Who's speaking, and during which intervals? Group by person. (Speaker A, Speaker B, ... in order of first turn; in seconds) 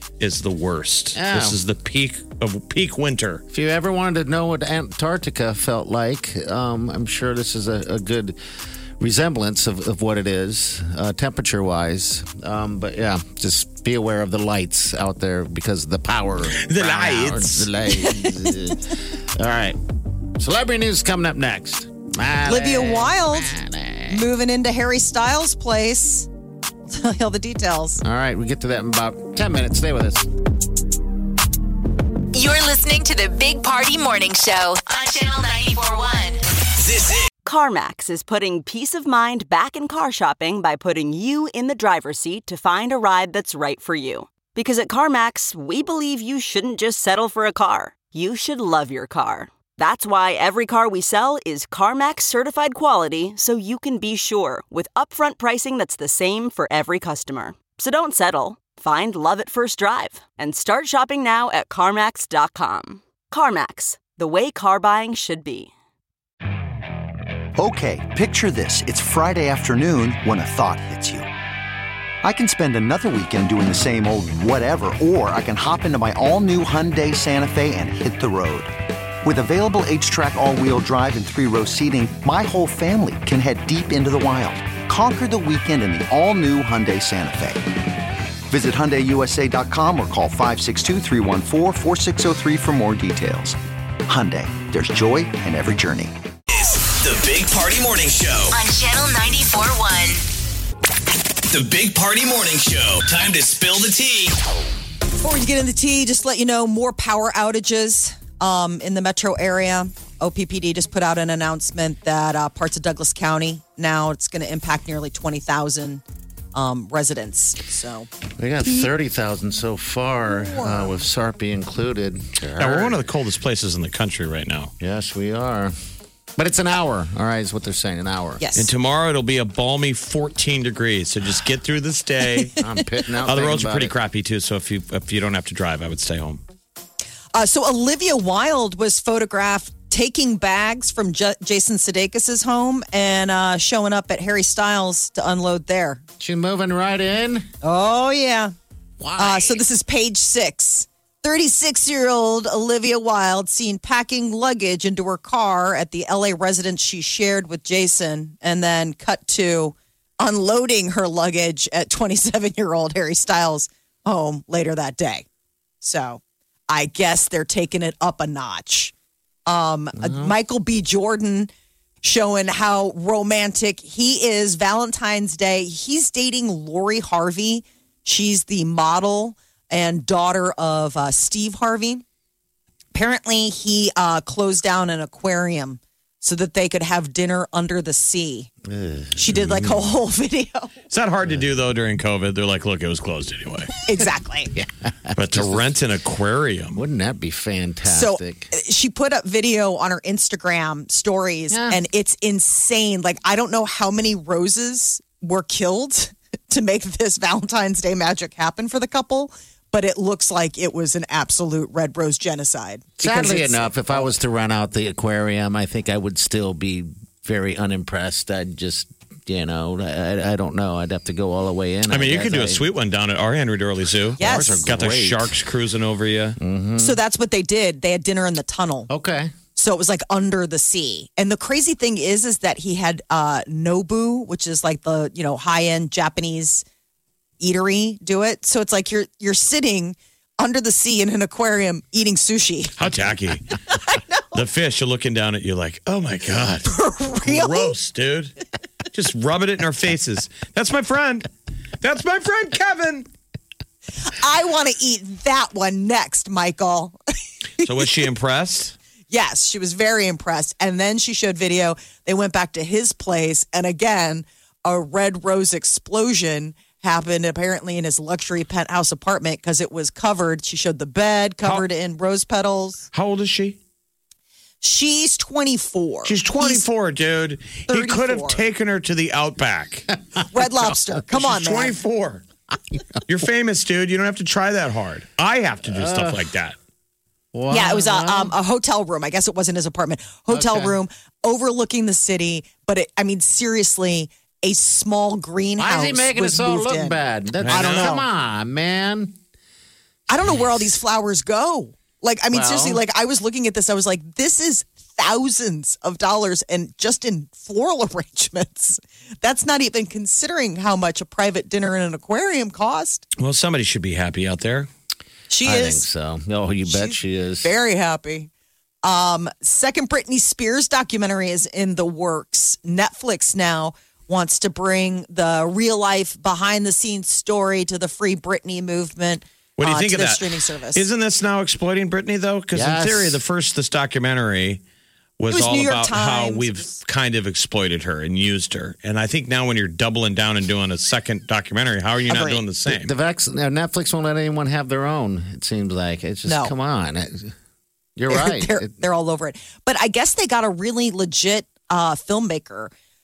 Speaker A: 0.2-3.4, 16.6-17.7, 122.6-124.7, 128.6-132.6, 133.2-136.4, 190.9-193.7, 195.2-196.8, 221.9-226.4, 242.8-243.5, 244.3-248.3, 248.9-251.3, 251.8-253.1, 257.6-258.8, 272.9-273.6, 276.1-279.9, 281.1-282.2, 283.1-286.6, 297.4-297.9, 313.2-314.7, 329.6-334.6, 335.2-342.9
Speaker B: 1.1-1.6, 3.5-8.4, 9.0-19.8, 20.4-24.2, 28.0-30.3, 118.4-123.1, 124.8-125.7, 126.3-128.4, 132.6-133.9, 146.2-147.5, 149.0-149.6, 170.0-170.3, 188.6-189.9, 194.5-195.8, 196.7-198.5, 201.5-201.8, 213.0-222.7, 224.2-225.4, 226.4-227.0, 228.9-229.3, 282.7-283.0, 285.6-286.2, 287.3-288.3, 290.3-290.8, 295.6-299.2, 302.3-302.8, 315.4-317.5, 332.5-333.2, 342.6-347.3, 347.9-348.7
Speaker C: 18.1-18.5, 22.4-23.5, 24.1-26.3, 26.9-28.0, 105.2-116.0, 116.5-118.1, 120.3-120.9, 128.4-128.7, 137.3-146.0, 147.6-148.5, 149.2-165.2, 165.8-168.9, 169.5-171.5, 172.0-182.0, 182.9-188.5, 189.2-190.7, 193.8-194.5, 197.8-214.1, 224.2-224.7, 226.8-228.9, 229.6-236.6, 237.4-242.7, 243.7-244.3, 246.6-247.7, 254.0-257.0, 259.1-272.8, 274.6-276.6, 277.7-278.4, 280.3-281.8, 287.5-298.0, 300.1-313.0, 315.3-315.9, 316.6-318.3, 318.8-330.8, 335.3-336.7, 342.1-342.4, 346.2-346.5, 348.1-352.7
Speaker D: 32.3-36.4, 98.5-100.2
Speaker E: 36.8-37.3, 96.5-98.6, 101.5-104.3
Speaker F: 37.4-65.7
Speaker G: 67.6-71.3, 72.2-87.6, 88.5-96.1